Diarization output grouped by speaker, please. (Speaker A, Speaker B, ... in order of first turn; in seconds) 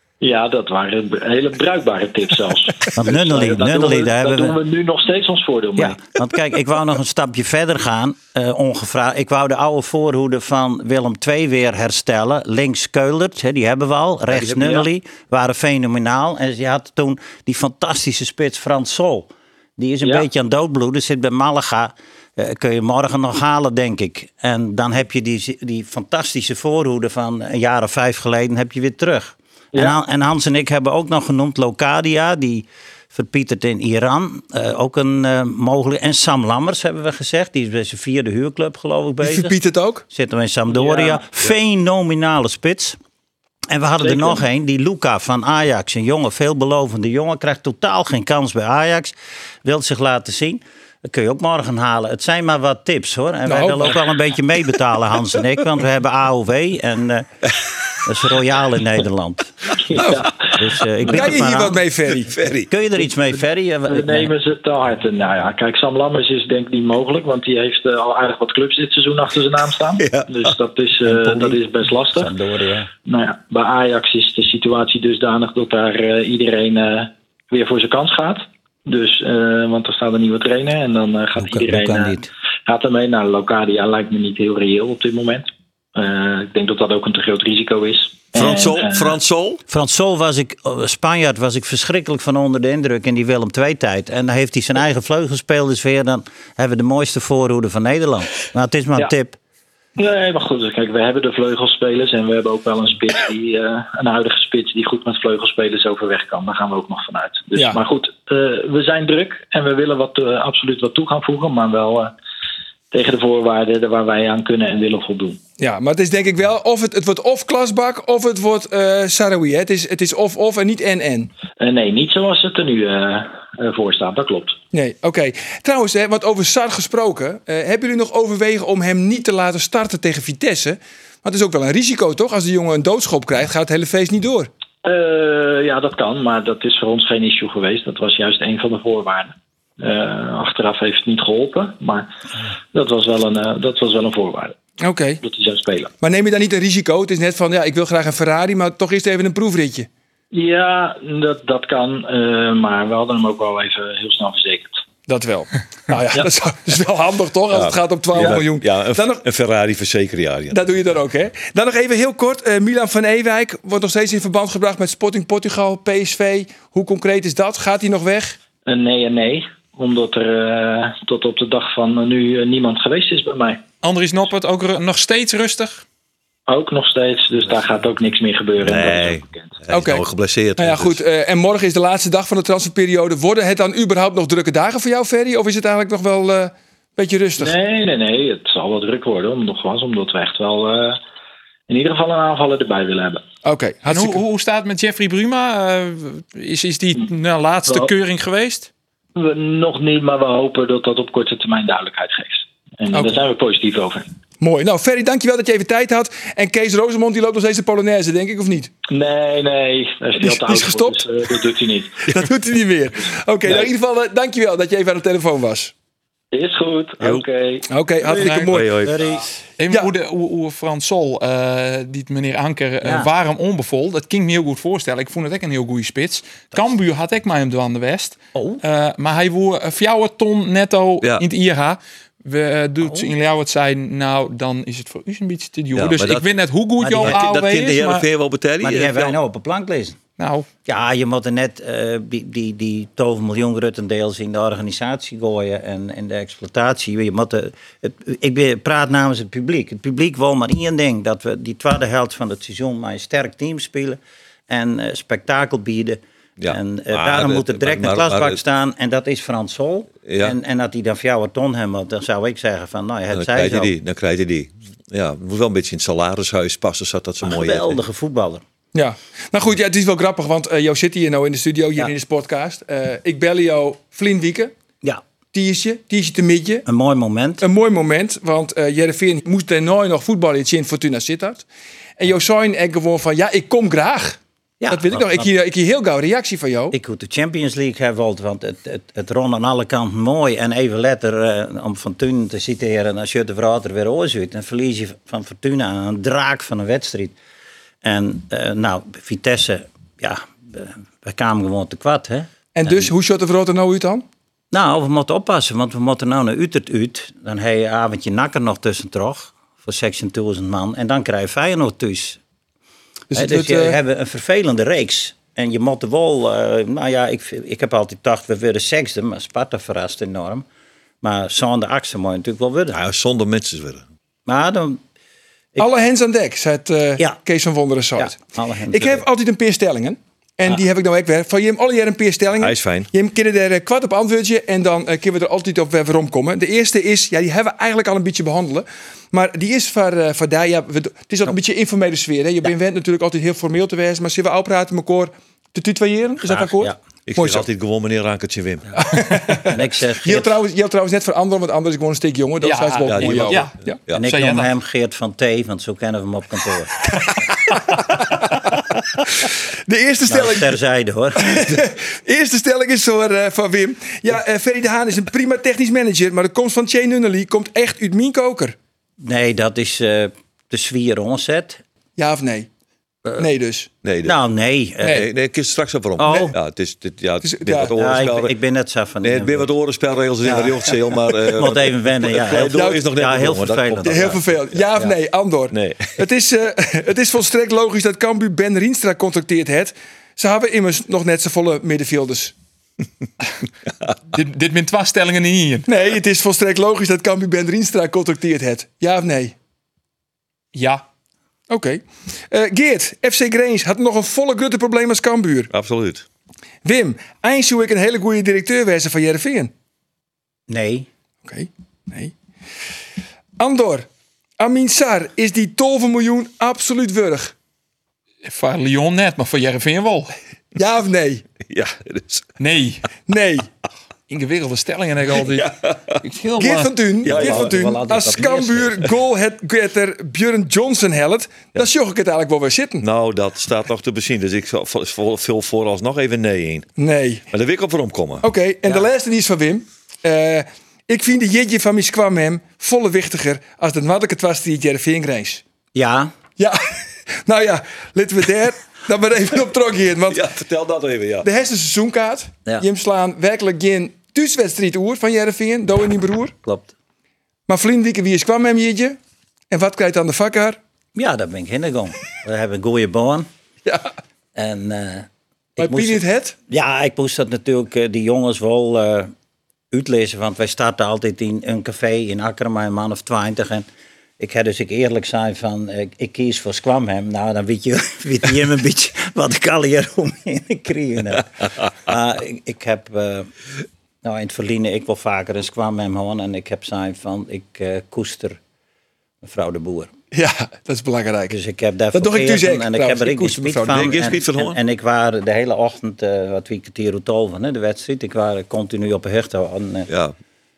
Speaker A: 0.2-6.0, 14.3-14.8, 40.7-41.3, 44.0-44.5, 59.8-60.5, 63.9-72.3, 73.0-89.1, 100.0-112.1, 112.9-115.4, 121.6-124.6, 134.8-142.1, 142.7-144.6, 145.2-145.9, 150.3-154.8, 168.7-173.6, 176.5-179.5, 187.4-191.0, 191.7-193.2, 199.2-204.1, 208.9-212.1, 216.3-217.7
Speaker B: 2.9-4.6, 5.8-39.5, 40.1-43.0, 43.7-49.1, 49.6-57.3, 58.0-60.0, 60.5-61.8, 62.7-64.3, 71.0-71.6, 72.1-72.9, 81.3-82.3, 89.7-99.4, 218.0-219.2, 222.8-223.1, 228.3-228.6, 232.8-233.1, 236.8-237.2, 238.6-240.0, 240.6-263.7, 267.2-268.4, 276.6-277.4, 284.6-285.3, 286.7-297.1, 297.8-302.9, 304.5-312.2, 313.1-320.4, 321.0-322.8, 324.3-324.8, 328.0-329.0, 346.2-346.8, 349.5-350.3, 353.9-356.7, 360.1-361.5, 369.0-371.6, 374.0-375.0, 376.0-376.3, 377.8-379.5, 380.2-384.2, 410.5-410.9, 427.0-428.9, 445.7-446.1, 456.4-456.7, 460.9-463.3, 464.4-469.1, 469.7-473.7, 474.2-483.3, 484.0-488.4, 489.2-489.9, 491.3-499.9
Speaker C: 39.2-40.0, 53.5-54.0, 61.1-62.3, 115.6-121.3, 124.7-134.5, 144.8-145.2, 146.0-149.9, 155.1-159.2, 160.5-168.4, 179.7-180.1, 180.6-187.5, 193.4-194.2, 202.9-203.2, 204.4-208.7, 210.2-211.0, 212.1-215.7, 217.7-218.8, 268.7-274.5, 275.3-276.6, 277.4-281.4, 282.0-284.2, 284.7-286.7, 302.5-304.0, 313.1-313.8, 325.6-328.2, 328.7-347.4, 348.8-353.8, 359.2-360.5, 361.1-368.6, 372.0-372.5, 373.2-373.7, 377.2-377.7, 382.5-382.8, 383.8-392.3, 395.7-399.3, 401.5-405.5, 406.6-409.5, 411.2-412.1, 413.4-413.9, 414.4-417.3, 420.6-421.2, 423.1-423.5, 426.4-432.9, 436.8-437.2, 438.2-445.4, 446.4-450.2, 451.2-456.3, 457.5-459.0, 459.5-460.6, 465.6-466.3, 490.1-491.3, 491.9-493.9
Speaker D: 62.2-62.7, 70.0-70.5, 88.3-89.6, 157.5-160.7, 178.6-181.0, 218.5-219.0, 235.7-236.3, 237.0-239.2, 256.4-258.4, 260.1-260.3, 263.1-267.8, 322.7-323.8, 332.4-332.9, 347.1-349.0, 352.9-353.9, 373.8-374.1, 374.8-378.3, 379.0-384.2, 385.5-386.0, 405.5-406.1, 421.4-422.3, 425.1-426.0, 427.0-427.6, 432.8-436.7, 437.3-438.2, 450.1-451.3, 493.7-494.6, 499.9-500.1
Speaker E: 173.8-175.8, 193.9-198.7, 218.2-218.5, 219.6-238.1, 240.2-240.5, 352.4-354.5, 394.1-395.7, 400.5-400.8, 418.2-420.1, 422.4-422.9, 424.1-426.7